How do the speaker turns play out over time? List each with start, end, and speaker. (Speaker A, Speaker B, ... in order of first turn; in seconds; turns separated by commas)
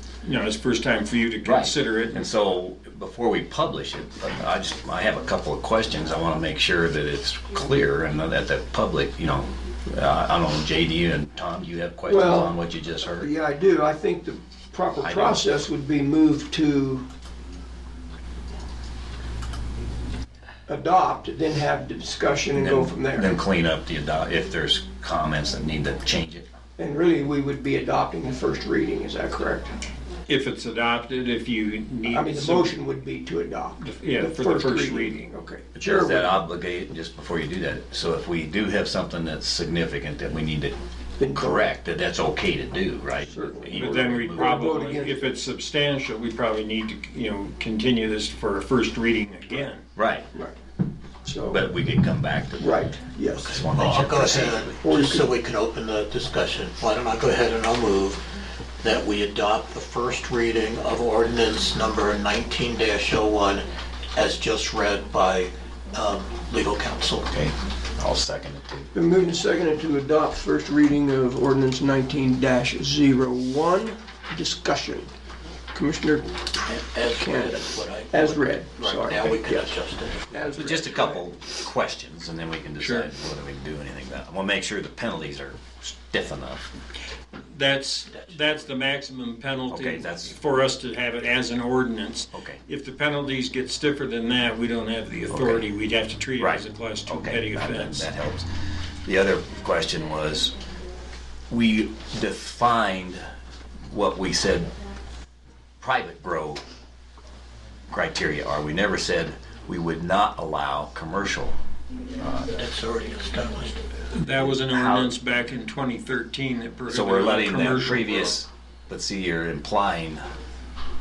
Speaker A: 0.2-2.3, Speaker B: 1.4-13.3, Speaker C: 12.1-17.1, Speaker B: 15.0-15.6, Speaker C: 20.7-23.4, Speaker B: 22.5-26.4, Speaker C: 26.8-29.7, Speaker A: 30.3-32.8, Speaker C: 32.0-36.4, Speaker A: 33.8-35.3, Speaker B: 35.8-40.8, Speaker C: 41.2-41.7, Speaker B: 41.3-44.6, Speaker C: 43.2-45.3, Speaker A: 43.7-49.9, Speaker B: 50.0-50.3, Speaker C: 51.2-51.8, Speaker B: 51.5-52.8, Speaker C: 52.6-53.7, Speaker B: 53.3-54.8, Speaker D: 53.3-58.3, Speaker C: 54.8-55.3, Speaker D: 58.8-67.3, Speaker B: 67.3-68.9, Speaker C: 68.9-75.1, Speaker C: 75.7-81.3, Speaker D: 76.7-80.3, Speaker B: 80.5-86.7, Speaker A: 82.8-83.1, Speaker A: 87.5-98.1, Speaker B: 89.7-90.4, Speaker B: 92.3-92.6, Speaker B: 95.3-95.7, Speaker B: 96.4-98.5, Speaker B: 99.0-100.5, Speaker B: 101.5-103.2, Speaker B: 103.9-104.7, Speaker B: 105.8-106.6, Speaker B: 107.9-111.5, Speaker B: 112.2-112.5, Speaker D: 112.5-113.9, Speaker A: 114.1-118.4, Speaker B: 114.3-115.1, Speaker B: 116.9-120.2